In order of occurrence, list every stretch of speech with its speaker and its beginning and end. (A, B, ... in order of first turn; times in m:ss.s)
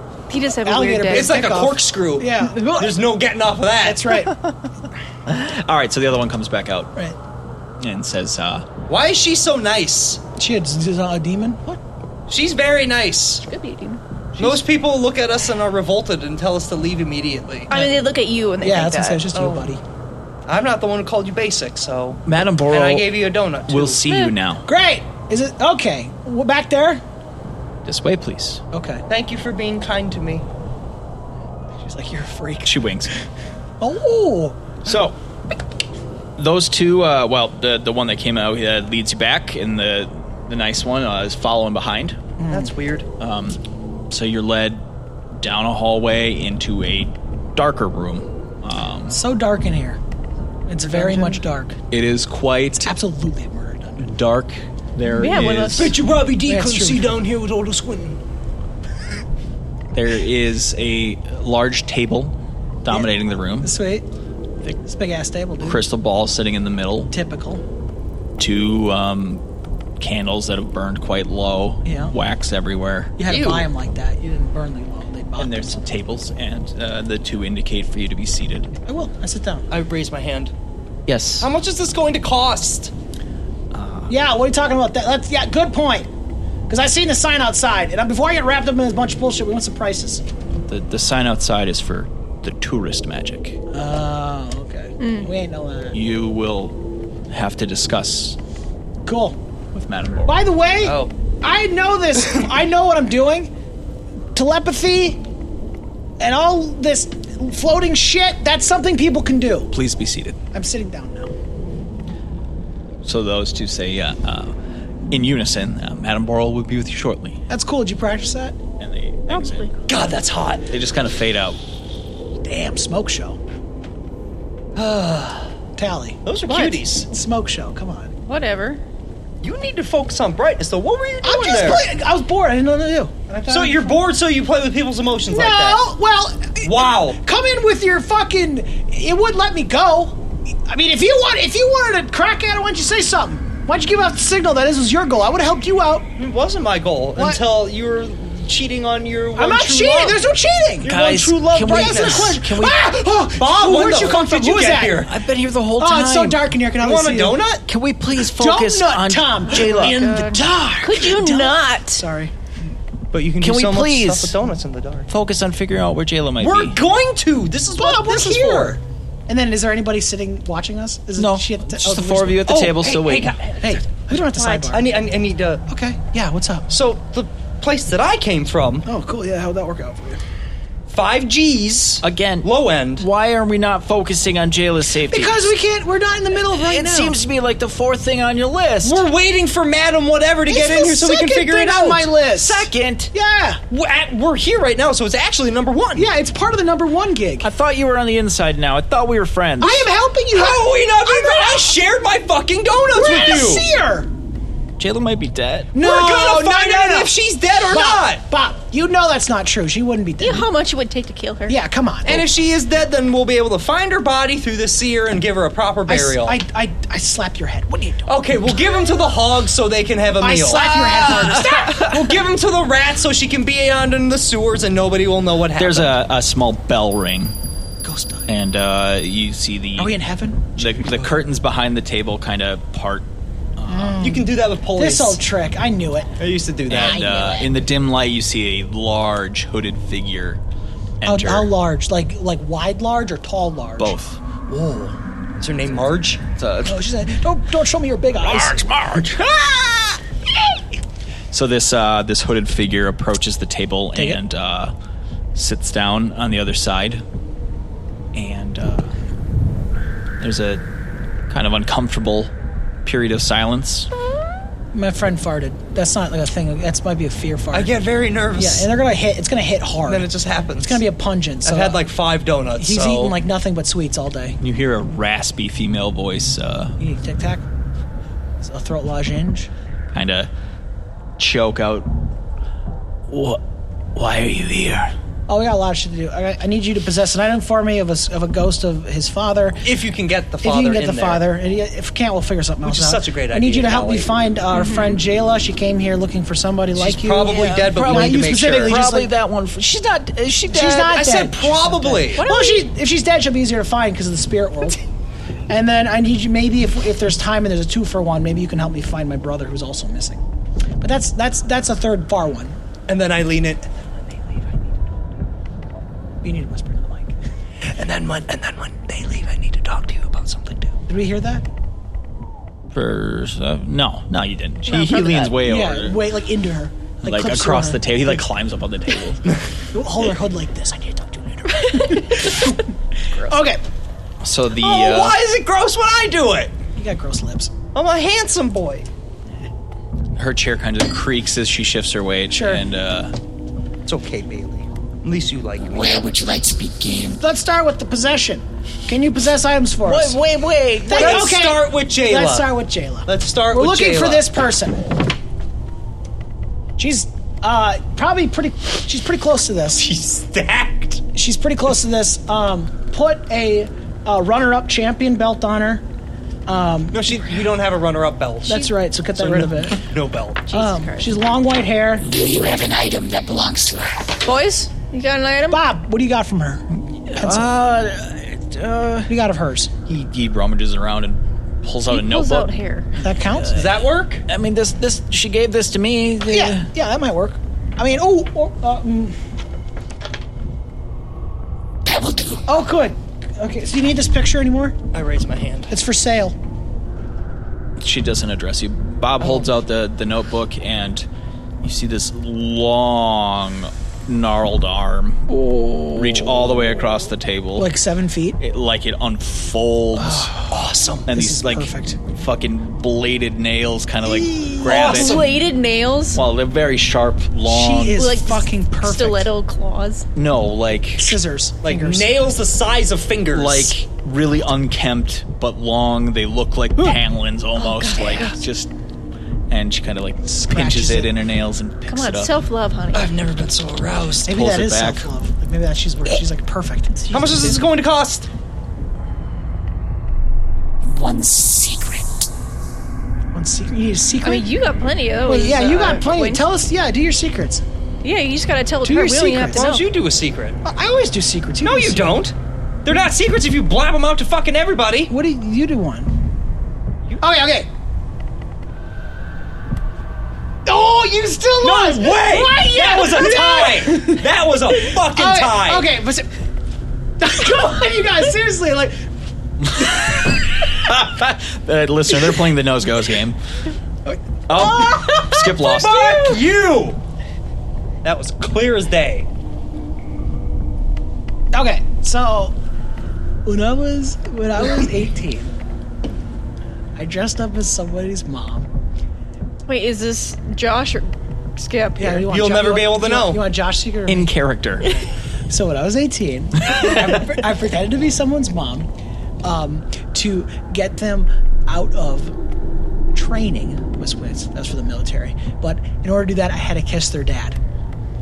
0:00.3-0:01.5 A
0:00.6-0:03.0 B
0:01.1-0:04.2 C
0:03.8-0:04.4 B
0:05.3-0:06.9 D
0:07.8-0:08.7 D
0:08.9-0:10.2 C
0:10.4-0:11.8 B
0:12.3-0:13.4 C
0:13.4-0:14.0 A
0:14.4-0:17.7 C
0:17.7-0:19.3 A
0:17.7-0:18.0 B
0:18.6-0:19.8 B
0:19.3-0:19.7 C
0:20.5-0:24.0 C
0:22.3-0:24.7 D
0:24.7-0:27.0 B
0:27.8-0:28.6 D
0:28.7-0:29.0 B
0:29.1-0:30.4 C
0:31.8-0:33.1 B
0:32.6-0:33.1 D
0:33.8-0:34.8 B
0:34.8-0:35.2 D
0:36.4-0:42.2 D
0:42.4-0:42.7 B
0:42.5-0:43.1 C
0:43.2-0:49.2 D
0:49.1-0:50.0 B
0:50.7-0:51.8 B
0:50.8-0:51.4 C
0:51.9-0:52.9 D
0:52.8-0:54.1 B
0:54.0-0:56.0 D
0:55.1-0:56.0 A
0:55.8-0:58.2 C
0:56.5-0:57.1 B
0:59.9-1:03.7 D
1:02.9-1:04.1 B
1:04.8-1:05.8 B
1:05.6-1:07.1 D
1:07.1-1:07.6 B
1:08.4-1:09.4 D
1:10.0-1:13.2 D
1:11.8-1:12.1 B
1:13.2-1:15.8 B
1:13.2-1:13.7 C
1:15.4-1:18.7 D
1:18.9-1:19.7 B
1:19.7-1:20.5 C
1:21.1-1:21.5 D
1:21.4-1:22.9 C
1:23.7-1:24.1 D
1:24.1-1:26.1 B
1:26.7-1:30.2 B
1:30.7-1:33.6 D
1:33.7-1:36.0 B
1:35.0-1:35.3 A
1:35.9-1:38.4 D
1:39.0-1:39.4 B
1:39.7-1:40.4 D
1:40.3-1:43.5 B
1:40.8-1:41.1 C
1:44.4-1:45.2 B
1:46.2-1:49.7 B
1:49.7-1:50.4 D
1:50.5-1:51.3 B
1:53.0-1:54.6 D
1:55.1-1:57.4 D
1:57.5-1:58.6 B
1:58.8-1:59.7 D
1:59.3-1:59.7 A
1:59.9-2:00.7 C
2:00.7-2:01.6 D
2:02.4-2:03.4 B
2:04.8-2:05.5 C
2:05.8-2:06.2 B
2:06.3-2:07.1 C
2:06.5-2:06.8 A
2:07.1-2:08.1 B
2:08.3-2:08.8 A
2:09.4-2:11.8 C
2:11.2-2:14.0 B
2:13.5-2:15.9 C
2:15.3-2:26.1 B
2:16.6-2:17.2 C
2:26.2-2:30.3 C
2:29.4-2:35.1 B
2:30.8-2:32.9 D
2:30.9-2:32.4 C
2:33.3-2:35.2 C
2:35.1-2:36.4 D
2:35.8-2:37.4 B
2:36.8-2:37.6 C
2:37.7-2:40.1 D
2:38.2-2:42.3 B
2:39.5-2:42.1 A
2:43.1-2:45.1 C
2:43.4-2:44.4 D
2:45.1-2:46.8 D
2:46.4-2:48.8 C
2:47.8-2:52.5 B
2:51.2-2:53.4 D
2:52.4-2:55.6 C
2:53.6-2:54.9 B
2:55.7-2:56.7 B
2:56.7-2:58.9 C
2:58.9-3:00.2 B
3:00.9-3:03.1 C
3:02.0-3:05.5 D
3:05.1-3:07.1 B
3:06.5-3:09.0 D
3:08.8-3:12.1 C
3:10.5-3:13.6 B
3:12.4-3:13.1 D
3:13.7-3:16.1 C
3:16.0-3:17.5 B
3:17.4-3:19.9 D
3:19.6-3:21.8 B
3:20.3-3:23.7 C
3:22.9-3:24.1 B
3:24.8-3:25.7 D
3:25.7-3:27.1 B
3:25.8-3:28.2 C
3:27.7-3:30.5 B
3:30.2-3:31.6 A
3:31.5-3:32.3 B
3:32.0-3:36.4 C
3:35.9-3:38.0 B
3:38.1-3:46.0 C
3:40.2-3:42.2 B
3:40.5-3:41.8 D
3:45.6-3:47.4 D
3:47.8-3:48.2 C
3:48.3-3:50.0 D
3:49.8-3:50.5 B
3:50.6-3:53.1 D
3:50.6-3:51.2 C
3:53.6-3:54.1 D
3:53.7-3:56.1 B
3:54.0-3:55.2 C
3:56.2-3:57.2 C
3:56.7-4:00.4 D
3:56.7-3:57.5 B
4:01.0-4:01.5 D
4:01.0-4:03.9 B
4:03.8-4:04.2 D
4:04.5-4:06.2 C
4:06.4-4:06.9 D
4:06.6-4:08.6 B
4:08.2-4:10.0 D
4:11.3-4:14.7 D
4:15.4-4:17.0 D
4:18.1-4:18.9 D
4:20.2-4:20.6 D
4:21.3-4:22.3 D
4:22.8-4:23.9 D
4:24.7-4:27.7 B
4:27.5-4:28.7 C
4:28.4-4:30.1 B
4:29.9-4:30.8 C
4:30.6-4:31.8 B
4:31.4-4:33.2 C
4:32.6-4:34.4 B
4:34.4-4:36.8 D
4:36.8-4:37.4 B
4:38.4-4:39.5 B
4:39.9-4:40.3 D
4:41.2-4:41.9 D
4:43.1-4:43.4 D
4:44.0-4:44.9 D
4:45.3-4:49.6 B
4:49.6-4:51.2 C
4:50.4-4:59.1 B
4:52.6-4:54.1 C
4:54.5-4:55.0 A
4:56.8-4:58.8 C
4:57.3-5:01.0 D
5:00.5-5:04.8 B
5:00.9-5:02.2 C
5:02.2-5:02.7 A
5:05.5-5:10.2 B
5:10.8-5:12.6 B
5:12.9-5:13.7 C
5:16.2-5:17.2 B
5:17.6-5:20.7 C
5:20.9-5:21.4 B
5:22.7-5:26.0 D
5:24.7-5:25.4 A
5:25.4-5:28.2 B
5:27.0-5:29.3 D
5:29.7-5:33.6 B
5:31.6-5:32.4 A
5:34.2-5:35.2 D
5:34.6-5:36.5 C
5:36.8-5:37.5 B
5:37.7-5:38.9 C
5:40.2-5:43.2 D
5:42.3-5:42.6 B
5:43.9-5:46.0 C
5:45.6-5:47.2 E
5:47.2-5:50.2 B
5:49.8-5:51.4 D
5:50.9-5:54.8 B
5:50.9-5:52.5 C
5:53.1-5:54.2 C
5:56.8-5:59.8 B
5:59.8-6:01.0 C
6:01.1-6:05.8 B
6:06.5-6:07.1 B
6:06.9-6:10.4 C
6:08.5-6:09.8 B
6:10.5-6:11.1 A
6:10.5-6:12.0 B
6:12.0-6:14.1 E
6:14.2-6:15.6 A
6:15.5-6:17.5 B
6:17.1-6:19.1 D
6:19.1-6:19.7 B
6:19.9-6:22.5 D
6:21.9-6:22.9 A
6:23.0-6:23.6 B
6:23.1-6:23.7 D
6:23.5-6:24.2 C
6:24.3-6:26.7 D
6:26.3-6:29.2 B
6:31.8-6:32.4 E
6:32.5-6:34.8 B
6:34.9-6:35.8 C
6:35.7-6:36.4 B
6:37.8-6:41.1 D
6:39.2-6:39.5 C
6:41.6-6:47.7 D
6:47.6-6:48.4 B
6:48.4-6:50.3 D
6:50.0-6:50.5 B
6:50.5-6:51.1 C
6:51.1-6:52.0 B
6:51.1-6:55.3 D
6:54.1-6:55.4 C
6:54.7-6:56.2 A
6:56.1-6:58.1 D
6:57.5-6:59.3 B
6:57.9-7:00.1 A
7:00.2-7:01.2 D
7:01.0-7:02.3 B
7:01.6-7:03.8 C
7:03.3-7:08.7 D
7:07.6-7:08.4 A
7:09.5-7:12.4 D
7:10.5-7:11.1 B
7:11.9-7:13.1 A
7:12.9-7:14.3 C
7:14.3-7:17.6 B
7:14.3-7:15.1 D
7:17.1-7:18.3 C
7:20.8-7:22.3 E
7:23.3-7:24.5 B
7:24.2-7:26.4 A
7:25.3-7:27.6 B
7:28.0-7:29.8 A
7:28.8-7:29.7 B
7:29.5-7:30.6 C
7:30.6-7:32.2 B
7:31.6-7:35.1 C
7:35.1-7:36.1 B
7:37.2-7:37.7 B
7:40.7-7:44.2 B
7:41.6-7:45.9 C
7:44.9-7:46.3 B
7:47.2-7:49.0 B
7:49.6-7:53.4 D
7:54.5-7:56.3 D
7:54.5-7:57.0 C
7:58.0-7:59.3 C
8:01.5-8:02.6 B
8:03.4-8:05.5 B
8:07.0-8:08.7 B
8:09.7-8:12.3 A
8:12.0-8:14.3 B
8:12.3-8:13.4 C
8:14.1-8:15.0 D
8:15.5-8:18.9 B
8:19.4-8:22.3 B
8:23.1-8:27.6 B